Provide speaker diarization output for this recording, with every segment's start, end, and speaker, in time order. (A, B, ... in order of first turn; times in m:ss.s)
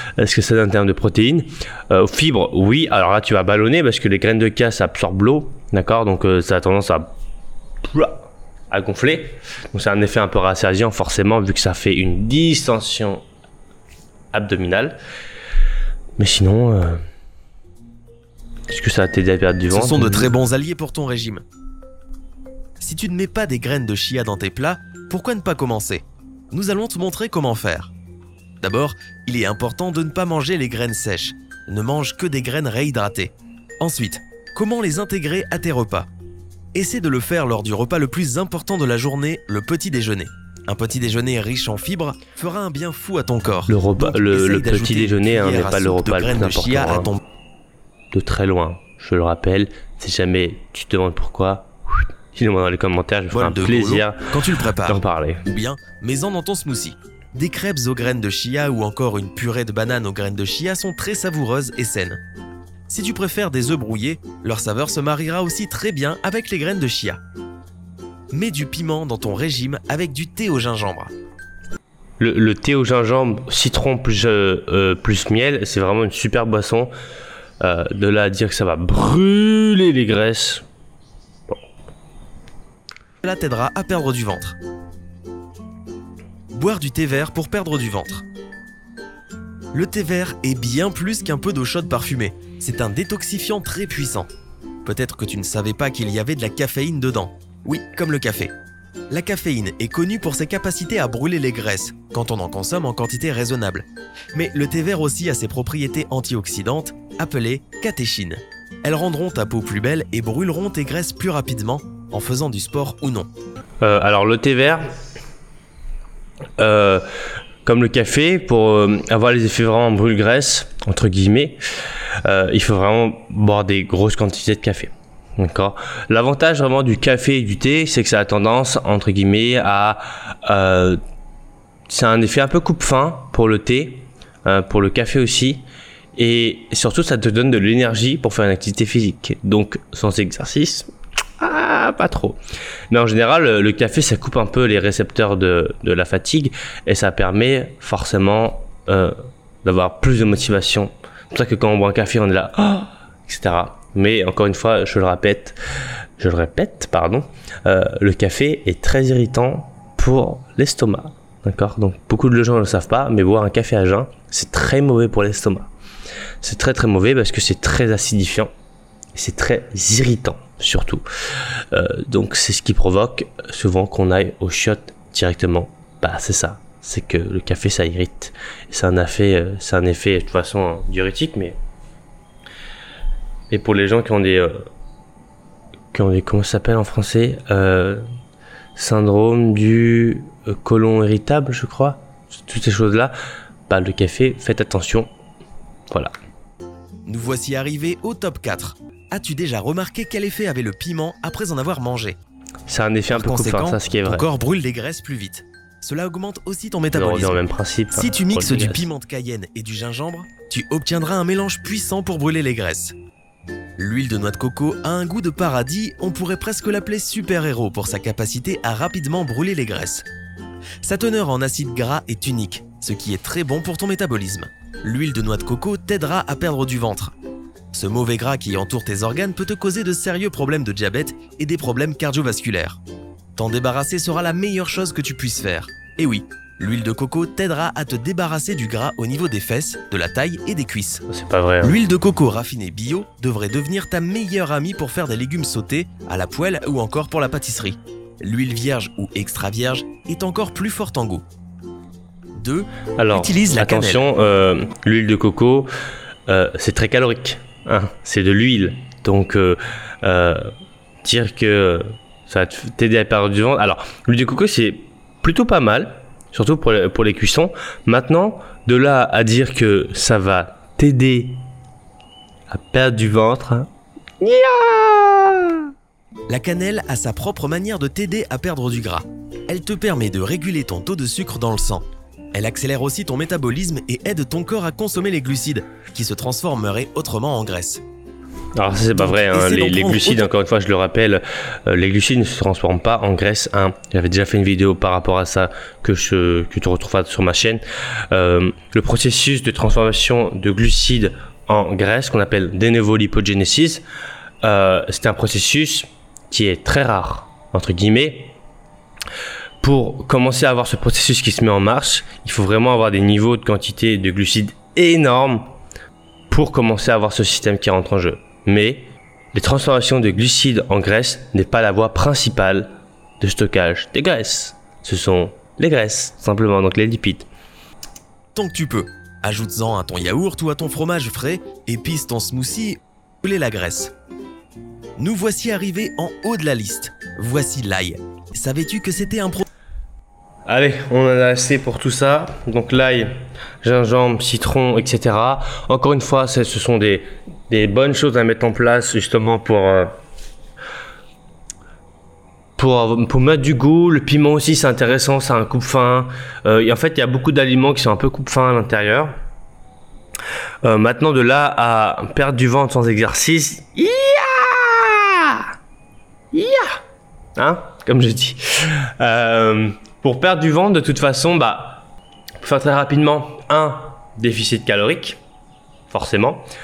0:00.2-0:07.1 A
0:07.8-0:13.2 A
0:14.3-0:15.0 A
0:16.2-0:17.0 A
0:18.7-0:20.3 A
0:19.7-0:21.4 B
0:22.8-0:27.9 B
0:28.6-0:36.1 B
0:36.7-0:47.2 B
0:43.7-0:47.1 A
0:48.1-0:51.7 A
0:52.3-0:54.2 A
0:53.3-1:02.2 B
0:54.8-0:55.4 A
1:02.9-1:07.2 B
1:08.3-1:11.1 B
1:12.2-1:16.9 A
1:17.6-1:20.6 A
1:23.2-1:24.6 B
1:26.5-1:28.2 B
1:29.7-1:34.3 B
1:34.8-1:38.5 B
1:39.1-1:53.3 B
1:53.8-1:54.9 A
1:56.6-1:57.0 A
1:57.6-2:01.6 A
2:02.2-2:11.0 A
2:11.9-2:15.6 A
2:16.2-2:20.9 A
2:21.4-2:22.4 A
2:22.9-2:29.1 A
2:29.6-2:35.6 A
2:36.2-2:45.7 A
2:46.4-2:48.5 A
2:49.1-2:51.0 A
2:51.7-3:01.6 A
3:03.5-3:04.5 A
3:05.9-3:08.0 A
3:08.8-3:13.1 A
3:13.7-3:15.1 A
3:17.0-3:22.2 B
3:22.7-3:24.3 A
3:23.1-3:27.4 B
3:26.9-3:28.9 A
3:27.9-3:32.9 B
3:33.8-3:40.1 B
3:40.8-3:47.1 B
3:47.7-3:52.8 B
3:53.4-4:01.0 B
4:01.1-4:01.8 A
4:01.6-4:11.2 B
4:12.4-4:14.0 B
4:13.0-4:15.7 A
4:16.3-4:20.5 A
4:21.0-4:31.4 A
4:32.5-4:33.7 A
4:34.2-4:35.6 A
4:36.3-4:47.8 B
4:48.6-5:03.8 A
4:49.0-4:50.3 B
5:04.4-5:08.4 A
5:09.6-5:15.4 A
5:16.3-5:27.3 A
5:28.3-5:33.9 B
5:35.0-5:39.4 B
5:40.5-5:43.1 A
5:43.6-5:50.0 A
5:52.6-5:59.1 A
6:00.6-6:05.5 A
6:06.3-6:06.8 A
6:07.4-6:11.8 A
6:12.4-6:15.2 A
6:15.9-6:16.4 A